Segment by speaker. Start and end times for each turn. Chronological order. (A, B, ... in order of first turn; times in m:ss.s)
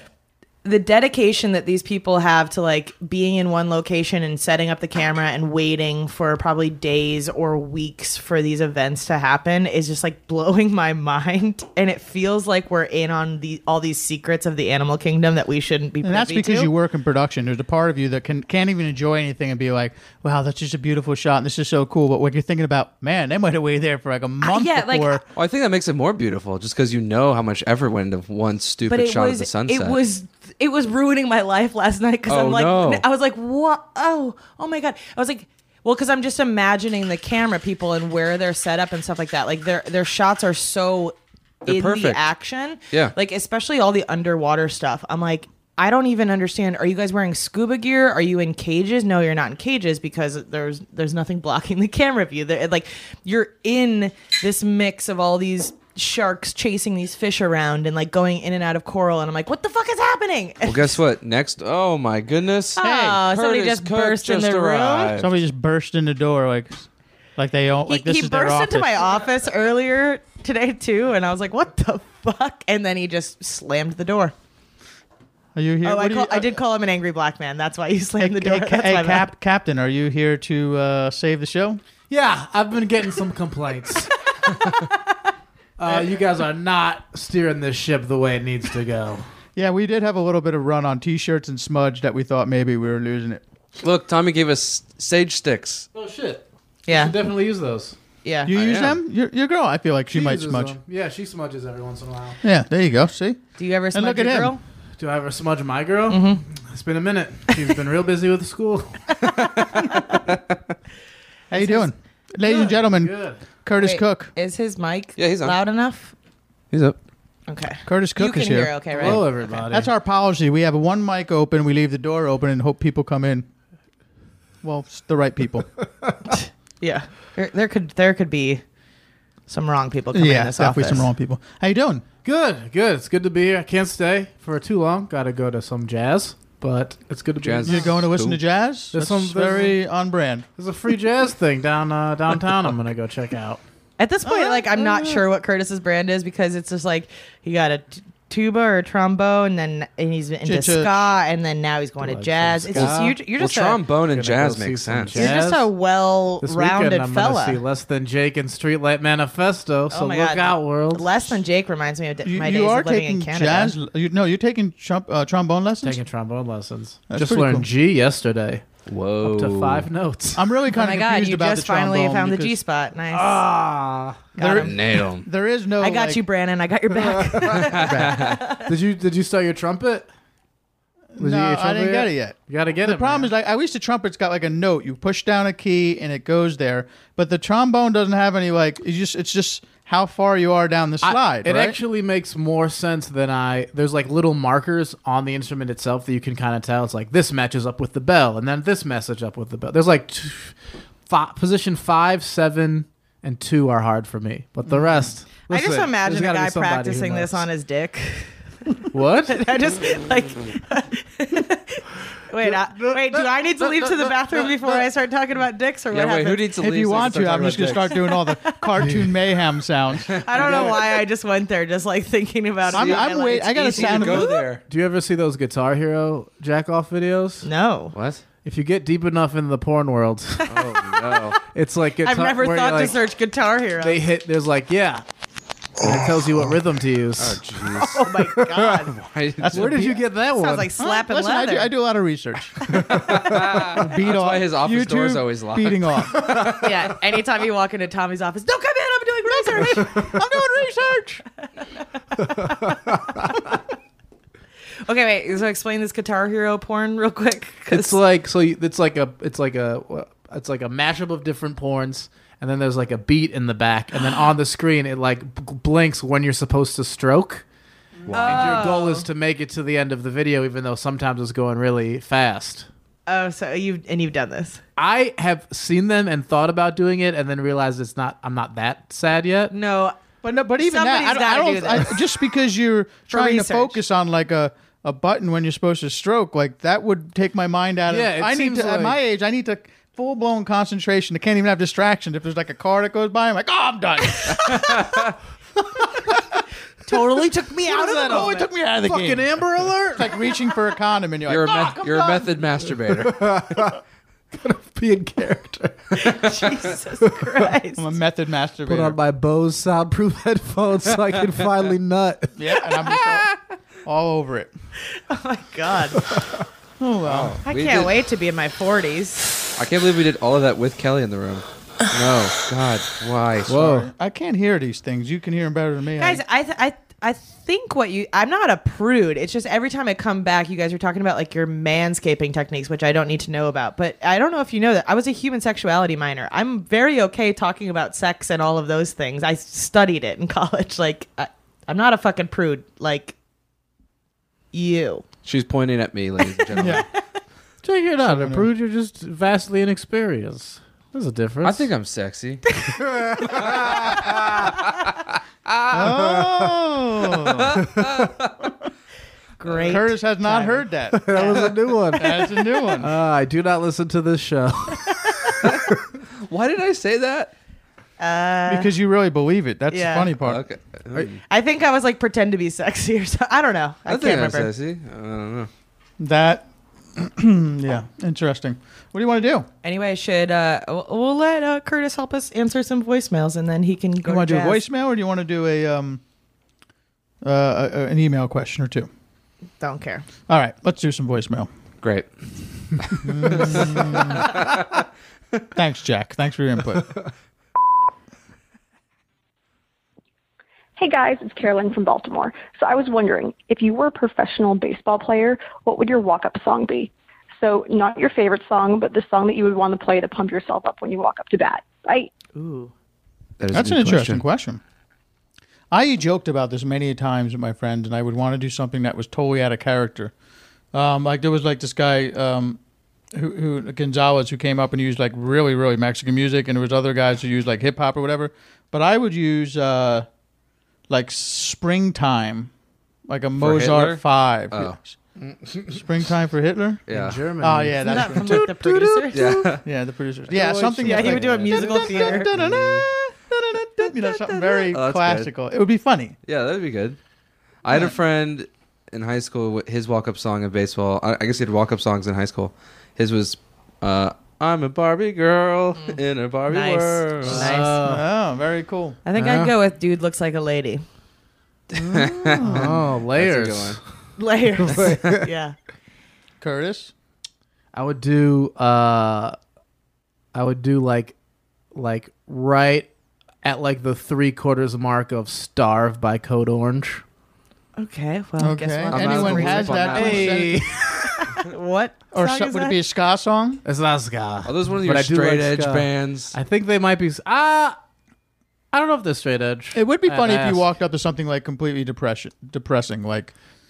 0:00.6-0:16.7 A
0:16.0-0:25.2 B
0:24.4-0:25.2 A
0:25.4-0:30.0 C
0:28.9-1:01.0 A
0:32.3-0:33.0 C
0:41.7-0:42.2 C
1:00.6-1:05.3 C
1:02.8-1:05.1 A
1:02.8-1:03.2 B
1:05.2-1:09.0 B
1:07.9-1:14.3 A
1:15.6-1:16.6 B
1:15.8-1:19.3 A
1:18.2-1:21.8 B
1:22.1-1:24.1 D
1:25.8-1:29.3 D
1:29.6-1:33.4 B
1:33.8-1:35.9 C
1:35.9-1:38.0 D
1:36.9-1:37.2 A
1:38.2-1:38.5 A
1:38.5-1:40.8 B
1:38.5-1:39.0 C
1:40.1-1:42.4 D
1:42.4-1:44.5 B
1:43.6-1:44.6 A
1:45.0-1:49.1 D
1:46.1-1:46.4 A
1:49.8-1:50.2 A
1:51.5-1:51.9 A
1:51.5-1:54.3 B
1:52.4-1:53.4 D
1:53.8-1:56.1 A
1:55.2-1:55.6 C
1:56.7-1:57.0 C
1:57.5-1:59.6 A
1:57.9-2:03.5 B
1:59.0-1:59.9 D
2:04.6-2:05.7 B
2:06.3-2:08.6 A
2:09.5-2:11.1 A
2:10.1-2:12.0 B
2:12.2-2:17.9 D
2:17.4-2:18.4 C
2:17.7-2:20.5 B
2:18.9-2:19.8 D
2:20.6-2:23.6 D
2:24.0-2:33.8 A
2:24.2-2:25.2 B
2:30.4-2:30.9 B
2:32.0-2:33.2 D
2:32.7-2:35.4 C
2:34.1-2:35.7 D
2:35.2-2:37.6 A
2:36.4-2:41.4 D
2:39.9-2:43.8 A
2:42.2-2:46.0 B
2:45.8-2:48.7 D
2:47.1-2:47.7 B
2:48.9-2:49.9 C
2:49.2-2:50.5 D
2:50.4-2:52.6 B
2:50.7-2:53.4 A
2:53.1-2:54.3 D
2:54.4-2:55.0 A
2:54.4-2:56.2 B
2:54.6-2:55.2 C
2:55.8-2:58.7 A
2:57.8-2:58.4 C
2:57.8-2:58.3 B
2:58.7-3:00.1 D
3:01.2-3:11.8 B
3:01.2-3:03.3 D
3:11.0-3:27.5 D
3:24.7-3:25.1 B
3:25.5-3:28.3 A
3:28.9-3:29.5 D
3:29.3-3:36.5 A
3:32.4-3:34.8 D
3:35.9-3:38.0 C
3:36.6-3:40.7 B
3:38.1-3:38.7 A
3:38.8-3:39.1 D
3:40.1-3:40.7 C
3:40.2-3:44.4 A
3:42.7-3:44.3 B
3:42.7-3:43.1 C
3:43.7-3:44.6 C
3:44.7-3:47.5 D
3:47.4-3:48.0 A
3:48.0-3:48.2 C
3:48.4-3:50.4 D
3:50.4-3:51.3 A
3:50.5-3:51.4 C
3:51.5-3:53.0 D
3:52.0-3:54.0 A
3:53.8-3:55.0 D
3:55.8-3:57.5 D
3:57.2-3:58.1 C
3:57.8-3:59.0 A
3:58.9-3:59.8 C
3:59.4-4:00.0 B
3:59.5-4:00.8 D
4:00.3-4:01.7 A
4:00.8-4:06.3 B
4:02.9-4:06.7 C
4:06.5-4:10.2 A
4:09.3-4:11.2 B
4:12.2-4:13.6 A
4:12.4-4:13.0 D
4:14.8-4:18.0 A
4:17.7-4:27.4 D
4:28.1-4:28.3 B
4:28.1-4:32.7 D
4:28.1-4:29.1 A
4:33.1-4:34.6 A
4:34.8-4:39.5 D
4:39.5-4:40.0 A
4:40.2-4:54.9 B
4:40.6-4:42.0 A
4:43.1-4:43.8 A
4:47.9-4:49.0 D
4:54.3-4:54.9 A
4:56.9-4:58.5 A
4:57.6-5:02.4 B
4:58.0-4:58.3 D
4:58.8-5:00.3 D
5:01.3-5:03.3 C
5:03.0-5:03.8 D
5:04.3-5:06.2 D
5:06.0-5:07.9 A
5:07.8-5:09.0 B
5:08.6-5:12.4 D
5:12.4-5:13.3 B
5:13.8-5:14.5 B
5:14.9-5:16.2 A
5:16.8-5:17.4 B
5:17.0-5:17.9 C
5:17.5-5:19.5 A
5:19.6-5:23.7 C
5:23.5-5:23.9 D
5:23.5-5:26.2 B
5:26.0-5:43.2 A
5:44.5-5:45.0 A
5:45.2-5:46.8 C
5:46.5-5:47.0 A
5:46.6-5:46.8 B
5:47.6-5:51.7 D
5:48.0-5:48.5 B
5:51.4-5:52.6 C
5:52.8-5:54.0 D
5:53.2-5:54.7 C
5:55.7-5:57.6 B
5:57.4-5:58.1 C
5:59.4-6:02.0 A
5:59.6-6:02.9 B
6:00.9-6:05.2 D
6:06.3-6:07.3 C
6:08.0-6:08.7 A
6:08.5-6:10.4 B
6:09.7-6:10.1 A
6:10.2-6:11.2 C
6:11.3-6:14.5 A
6:13.9-6:15.5 C
6:16.0-6:19.5 B
6:19.6-6:24.6 A
6:24.0-6:26.0 B
6:27.2-6:28.9 B
6:29.6-6:30.1 A
6:30.3-6:31.5 B
6:31.8-6:32.1 C
6:32.8-6:34.3 C
6:33.0-6:34.4 B
6:35.6-6:37.0 B
6:40.8-6:52.1 E
6:52.4-6:52.7 A
6:53.4-6:54.2 C
6:53.5-6:54.6 B
6:55.7-7:00.1 B
7:00.7-7:02.6 B
7:03.1-7:10.1 B
7:10.9-7:12.5 B
7:13.1-7:15.0 B
7:13.4-7:14.8 C
7:15.2-7:15.8 D
7:15.7-7:16.8 B
7:16.9-7:17.2 C
7:16.9-7:19.6 D
7:17.4-7:18.5 B
7:17.8-7:19.4 A
7:19.1-7:19.6 C
7:19.6-7:26.2 B
7:20.3-7:22.9 D
7:20.8-7:22.3 A
7:24.7-7:25.3 C
7:26.3-7:27.0 C
7:27.6-7:37.5 C
7:35.8-7:37.8 A
7:37.2-7:38.0 D
7:37.8-7:39.0 B
7:39.1-7:40.8 A
7:39.2-7:39.5 D
7:41.8-7:43.8 C
7:42.4-7:42.7 B
7:42.4-7:43.8 D
7:44.2-7:45.6 A
7:44.6-7:45.3 D
7:46.4-7:46.9 B
7:47.7-7:49.4 D
7:50.3-7:51.2 D
7:51.7-7:52.9 D
7:53.4-7:57.0 D
7:57.8-8:00.3 A
7:58.4-8:00.7 B
7:58.9-8:00.3 C
7:59.7-8:01.1 D
8:01.2-8:02.8 A
8:02.1-8:03.6 B
8:03.6-8:07.8 D
8:04.4-8:06.3 C
8:08.7-8:10.6 D
8:09.7-8:13.3 B